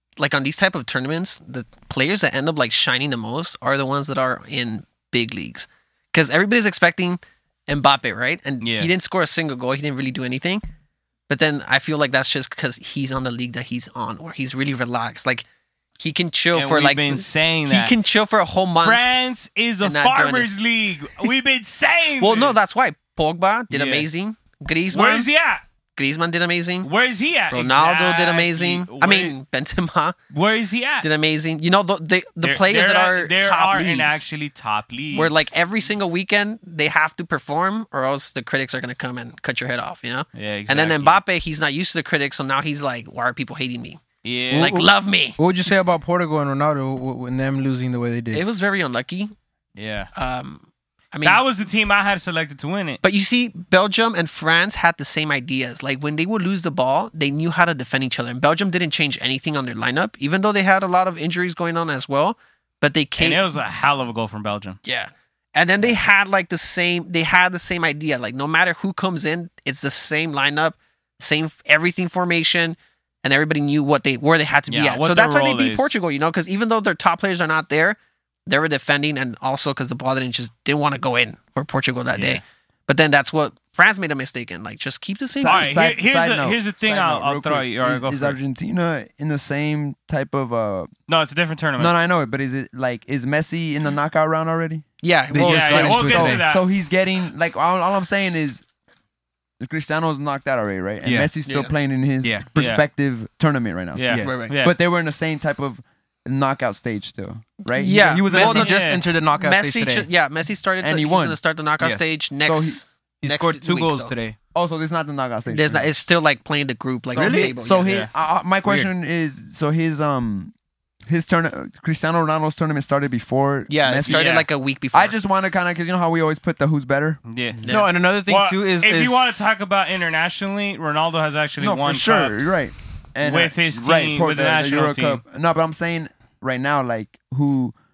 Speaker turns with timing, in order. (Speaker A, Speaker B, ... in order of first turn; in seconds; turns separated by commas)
Speaker A: 0.2-10.6, Speaker B: 8.6-8.9, Speaker A: 11.3-15.4, Speaker A: 16.0-19.1, Speaker B: 16.5-17.9, Speaker B: 18.7-22.6, Speaker A: 19.8-20.5, Speaker A: 22.2-25.3, Speaker B: 23.7-24.1, Speaker B: 24.9-25.6, Speaker A: 26.0-26.9, Speaker B: 26.8-29.4, Speaker A: 27.5-30.2, Speaker B: 30.3-31.1, Speaker A: 31.0-34.2, Speaker B: 32.4-35.5, Speaker A: 35.1-45.4, Speaker B: 40.4-41.2, Speaker B: 44.2-44.7, Speaker C: 44.5-48.4, Speaker A: 48.3-49.3, Speaker B: 49.8-50.1, Speaker A: 50.1-51.4, Speaker B: 51.2-53.0, Speaker A: 53.0-63.5, Speaker B: 63.2-64.8, Speaker A: 64.8-85.8, Speaker B: 74.7-75.9, Speaker B: 82.1-82.4, Speaker D: 85.4-90.9, Speaker B: 85.4-88.4, Speaker B: 91.1-91.9, Speaker D: 91.8-94.8, Speaker A: 95.0-96.4, Speaker C: 95.3-96.4, Speaker B: 95.4-96.7, Speaker D: 95.7-98.6, Speaker D: 99.6-108.7, Speaker C: 101.0-101.3, Speaker A: 101.5-101.7, Speaker B: 102.6-102.8, Speaker B: 104.0-104.8, Speaker C: 104.1-104.4, Speaker A: 104.2-104.6, Speaker A: 107.7-108.8, Speaker C: 107.8-110.1, Speaker B: 108.6-109.0, Speaker A: 109.3-114.2, Speaker D: 110.8-111.4, Speaker D: 112.4-112.8, Speaker C: 113.2-114.4, Speaker D: 114.5-115.9, Speaker A: 115.5-117.9, Speaker D: 117.1-120.5, Speaker C: 117.2-117.5, Speaker D: 121.1-127.2, Speaker A: 123.7-125.2, Speaker B: 124.1-124.5, Speaker B: 127.3-127.7, Speaker A: 127.7-127.9, Speaker C: 127.7-129.2, Speaker B: 128.3-132.6, Speaker D: 131.6-137.8, Speaker B: 133.2-135.2